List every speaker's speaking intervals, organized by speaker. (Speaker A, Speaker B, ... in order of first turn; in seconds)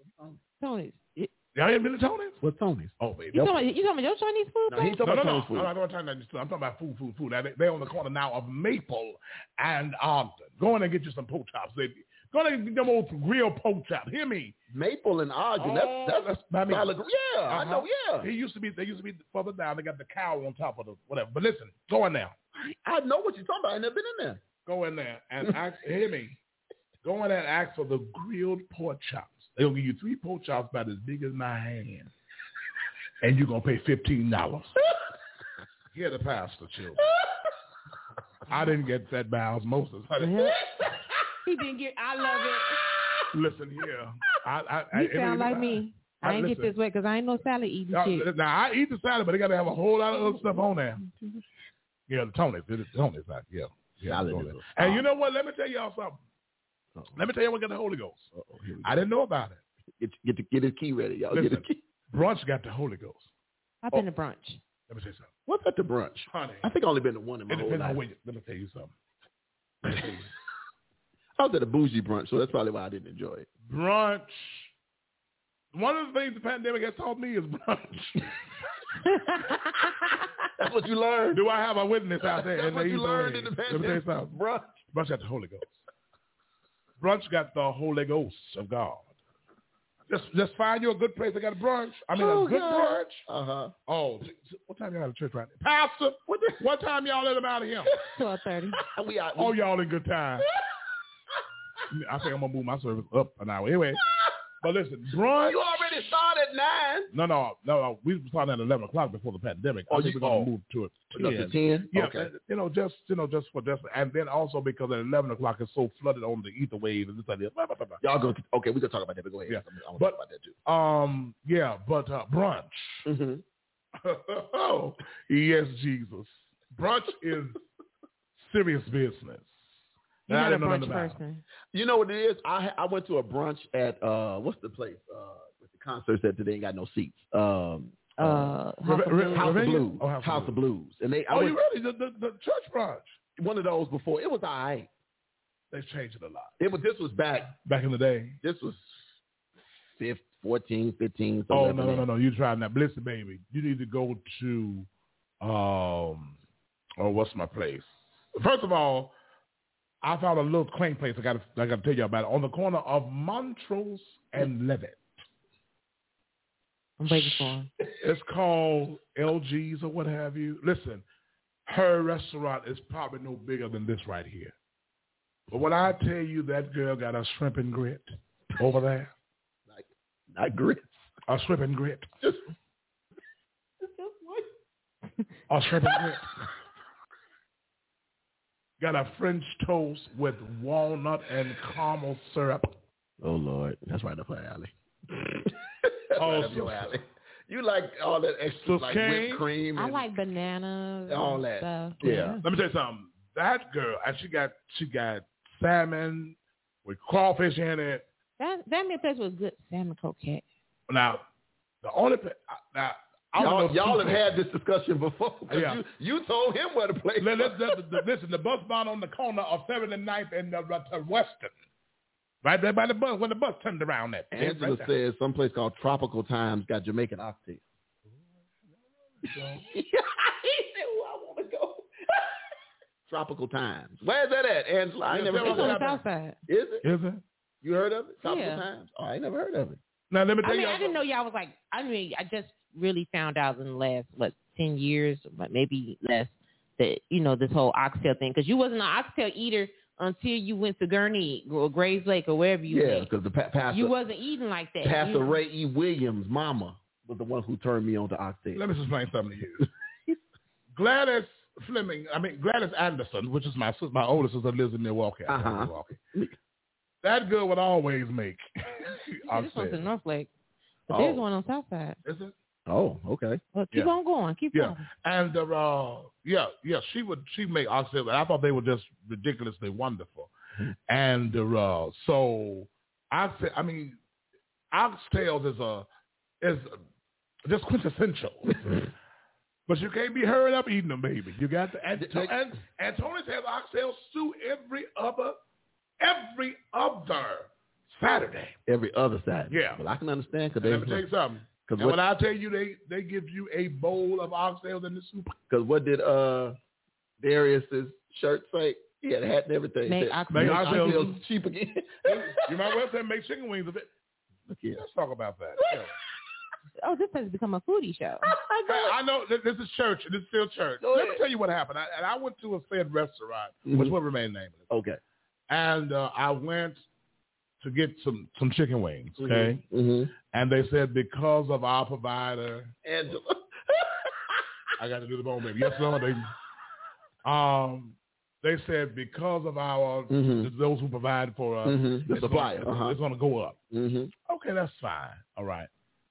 Speaker A: 0.6-1.3, 3.3-5.1, 40.2-40.5, 41.5-42.8, 44.9-48.3, 63.8-64.6, 79.0-79.6, 98.1-98.8, 130.3-131.4, 138.2-139.6, 167.0-167.7, 199.7-202.4, 208.4-210.4, 235.4-236.4, 238.2-238.7, 240.4-253.1, 253.7-255.4, 269.2-270.3, 270.9-272.0, 273.5-274.9, 309.9-311.2, 316.8-318.3
Speaker B: 1.5-2.4, 3.0-3.5, 5.0-14.6, 15.6-16.9, 17.5-22.4, 24.6-26.4, 27.0-32.1, 33.2-34.7, 35.9-37.0, 38.5-40.4, 43.3-46.7, 47.9-51.0, 52.1-56.2, 57.1-58.3, 58.8-59.6, 61.3-63.3, 64.9-65.3, 66.3-66.7, 67.5-68.9, 69.8-70.2, 73.7-74.7, 75.7-78.4, 81.3-84.3, 84.9-85.8, 87.0-89.0, 90.1-93.2, 93.9-98.0, 99.4-100.5, 101.9-104.0, 104.6-105.6, 107.1-118.0, 119.5-123.1, 124.0-127.6, 128.4-129.5, 130.3-131.2, 138.8-140.6, 141.3-143.2, 145.7-146.5, 147.6-148.4, 151.5-154.9, 155.4-156.3, 157.0-159.1, 160.0-165.1, 168.0-171.0, 171.7-174.5, 175.5-179.1, 181.3-182.1, 185.5-186.3, 188.8-192.7, 196.2-197.0, 198.6-199.4, 202.4-208.1, 210.9-211.2, 211.8-214.4, 215.5-215.8, 217.2-221.5, 222.4-224.9, 229.1-229.6, 235.1-236.0, 236.8-237.2, 240.1-241.0, 258.5-259.7, 260.7-266.0, 267.0-269.9, 272.0-272.3, 274.5-280.3, 280.9-284.0, 284.7-285.9, 286.4-286.8, 287.4-288.8, 289.7-295.4, 296.0-298.6, 299.5-299.8, 300.6-305.4, 310.3-311.2, 312.1-313.9, 314.8-315.9, 318.7-324.7, 325.5-326.8, 327.6-329.6, 330.3-332.7, 334.8-336.3, 337.2-343.6, 344.2-345.7
Speaker C: 2.4-3.5, 4.7-5.7, 14.7-18.3, 22.6-24.4, 37.0-37.2, 40.3-41.2, 42.5-43.2, 51.1-51.4, 54.0-55.0, 58.3-59.0, 60.0-61.8, 65.5-68.0, 71.4-73.5, 80.6-81.4, 82.2-84.9, 92.2-93.7, 96.3-96.6, 98.8-99.5, 105.4-107.1, 109.9-110.5, 111.1-112.3, 118.0-120.6, 123.0-123.4, 131.7-138.6, 139.3-141.6, 143.4-144.9, 146.6-147.5, 148.4-148.9, 149.9-152.1, 179.7-180.9, 183.8-184.4, 193.2-200.0, 201.1-202.4, 213.3-217.8, 224.3-227.6, 229.4-232.3, 233.1-235.8, 236.5-236.8, 237.6-239.8, 252.7-253.9, 254.8-258.6, 265.3-266.3, 270.9-271.2, 272.7-273.4, 291.9-292.3, 298.7-301.0, 301.6-302.0, 305.5-306.6, 307.2-312.8, 314.5-314.8, 315.6-315.9, 318.2-318.9, 320.8-321.2, 323.6-323.9, 324.7-325.0, 329.2-330.1, 332.8-334.4, 340.1-340.5, 341.6-343.0, 343.7-344.1